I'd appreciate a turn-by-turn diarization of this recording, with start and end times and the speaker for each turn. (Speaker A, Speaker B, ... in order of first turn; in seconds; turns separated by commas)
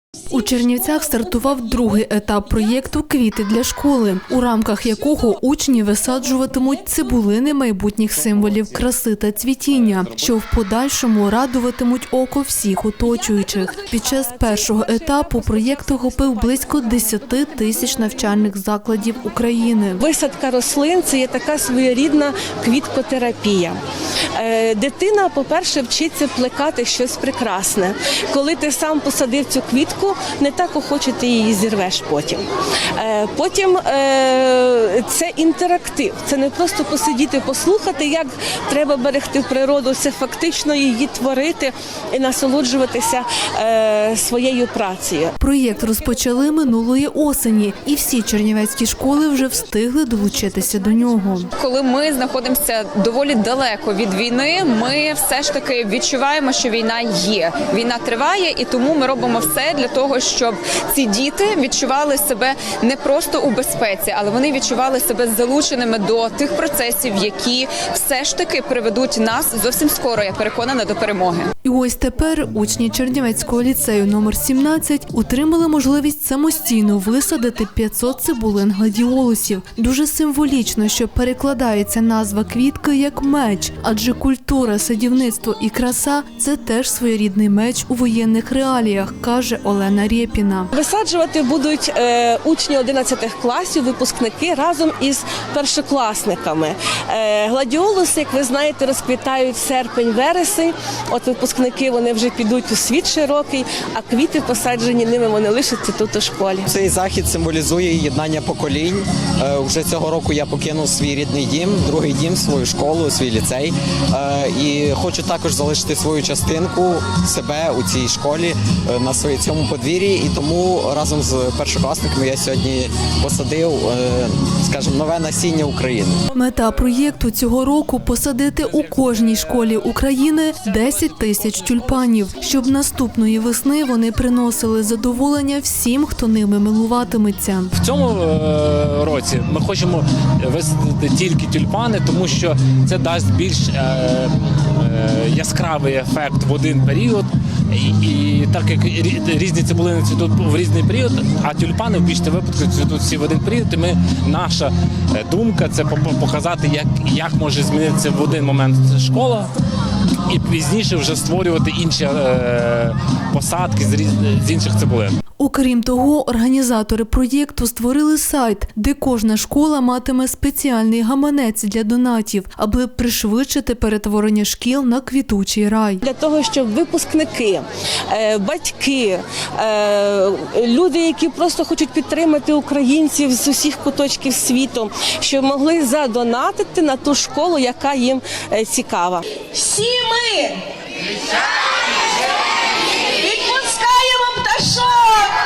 Speaker A: 0.3-20.0, Speaker B: 13.6-17.1, Speaker B: 20.0-23.8, Speaker B: 24.4-32.4, Speaker B: 33.0-45.3, Speaker A: 45.4-51.5, Speaker C: 51.6-71.5, Speaker A: 71.6-90.7, Speaker B: 90.7-106.7, Speaker D: 106.7-126.2, Speaker A: 126.3-137.7, Speaker E: 137.8-159.5, Speaker E: 160.3-165.2, Speaker A: 165.4-176.0, Speaker B: 176.0-190.6, Speaker B: 193.1-195.3